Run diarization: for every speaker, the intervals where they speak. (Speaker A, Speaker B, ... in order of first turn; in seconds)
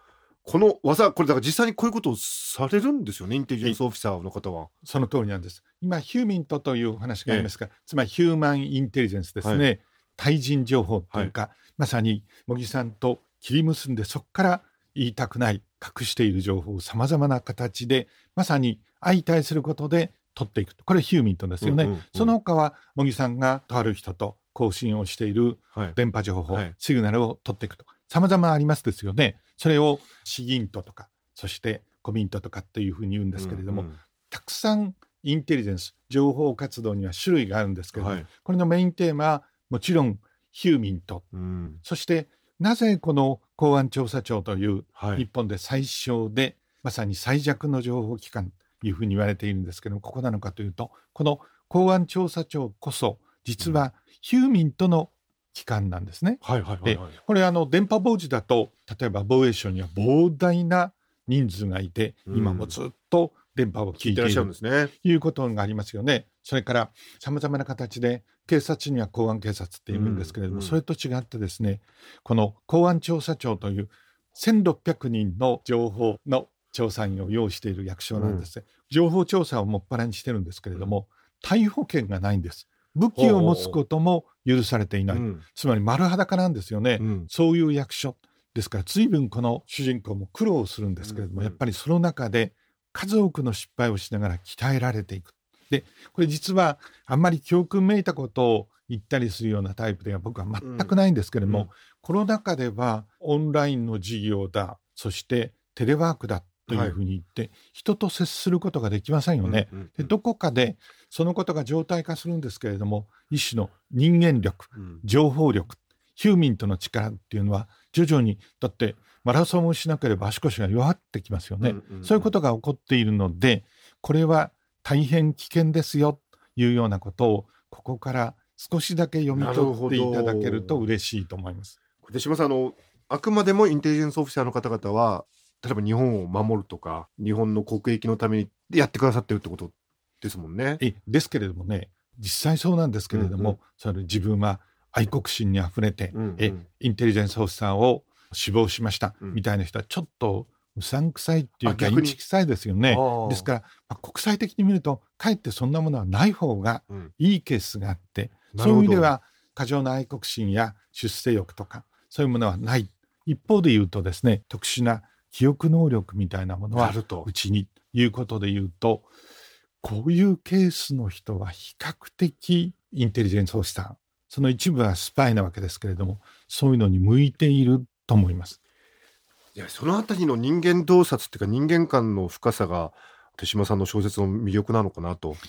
Speaker A: 0.5-4.7, 21.6-22.3, 33.4-34.0, 38.0-38.3, 41.3-41.8, 45.0-45.2, 56.4-57.1, 62.3-62.8, 64.0-64.9, 69.9-70.8, 78.2-78.5, 83.2-83.8, 85.1-85.4, 87.0-87.3, 91.0-91.6, 100.6-101.7, 106.7-107.0, 109.4-110.1, 121.6-122.3, 129.3-130.9, 132.0-140.8, 143.1-143.6, 146.1-146.6, 151.6-152.2, 152.9-153.5, 158.5-159.1, 166.7-167.3, 179.6-185.4
Speaker B: 4.8-41.3, 41.8-131.8, 140.8-169.1, 169.8-178.6